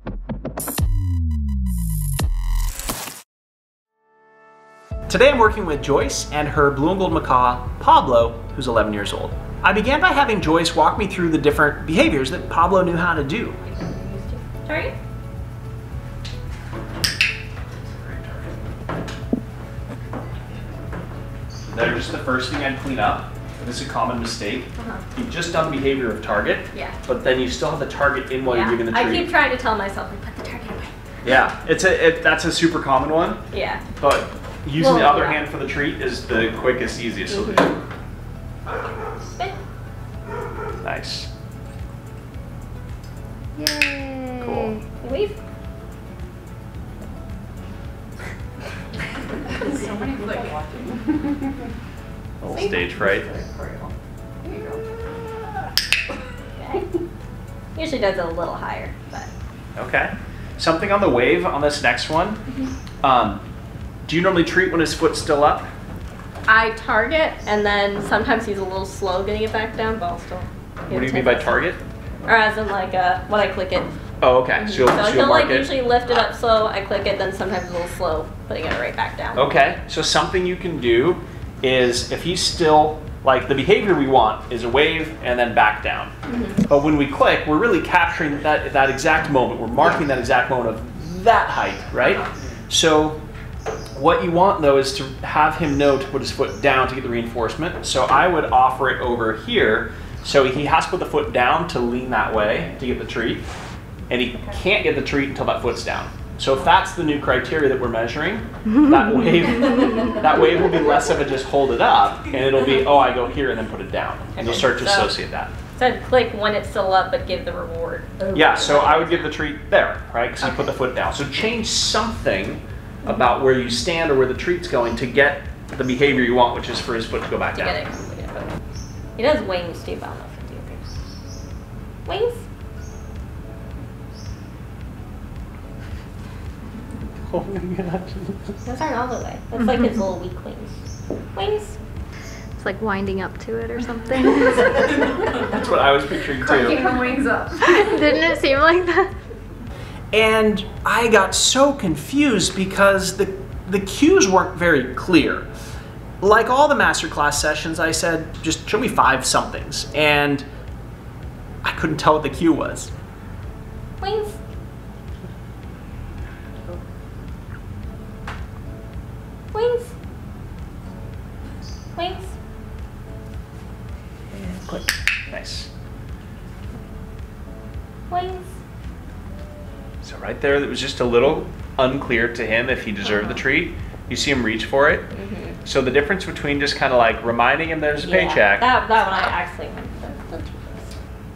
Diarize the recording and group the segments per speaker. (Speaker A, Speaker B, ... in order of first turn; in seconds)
Speaker A: 5.1-13.6, 18.0-18.4, 21.7-29.3, 31.2-33.4, 34.0-37.8, 40.8-41.3, 44.4-44.7, 52.4-53.3, 59.8-62.4, 63.0-63.4, 64.1-65.7, 70.9-71.8, 74.2-75.7, 79.3-86.1, 86.6-93.2, 94.0-103.4, 104.1-115.5, 118.3-127.8, 137.2-138.6, 145.2-146.8, 150.1-155.4, 156.2-160.4, 161.6-162.9, 174.3-175.7, 180.0-185.1, 185.6-188.7
Speaker B: 13.6-14.9, 24.8-25.0, 28.4-30.9, 33.5-33.8, 34.8-35.4, 37.3-37.7, 45.0-45.4, 52.5-53.9, 54.4-54.8, 56.5-56.9, 57.7-59.3, 66.5-71.6, 72.2-73.9, 74.5-79.5, 86.3-86.6, 114.3-115.1, 115.8-119.3, 127.5-128.5, 129.2-130.9, 132.1-132.4, 138.6-140.8, 141.3-141.8, 146.5-147.0, 164.0-164.4, 169.5-169.9, 171.9-172.3, 178.1-178.5, 183.1-183.4, 185.1-185.6, 188.0-191.0
Speaker C: 43.6-44.8, 142.6-144.9, 147.6-149.1
Speaker D: 49.5-51.2, 146.4-148.0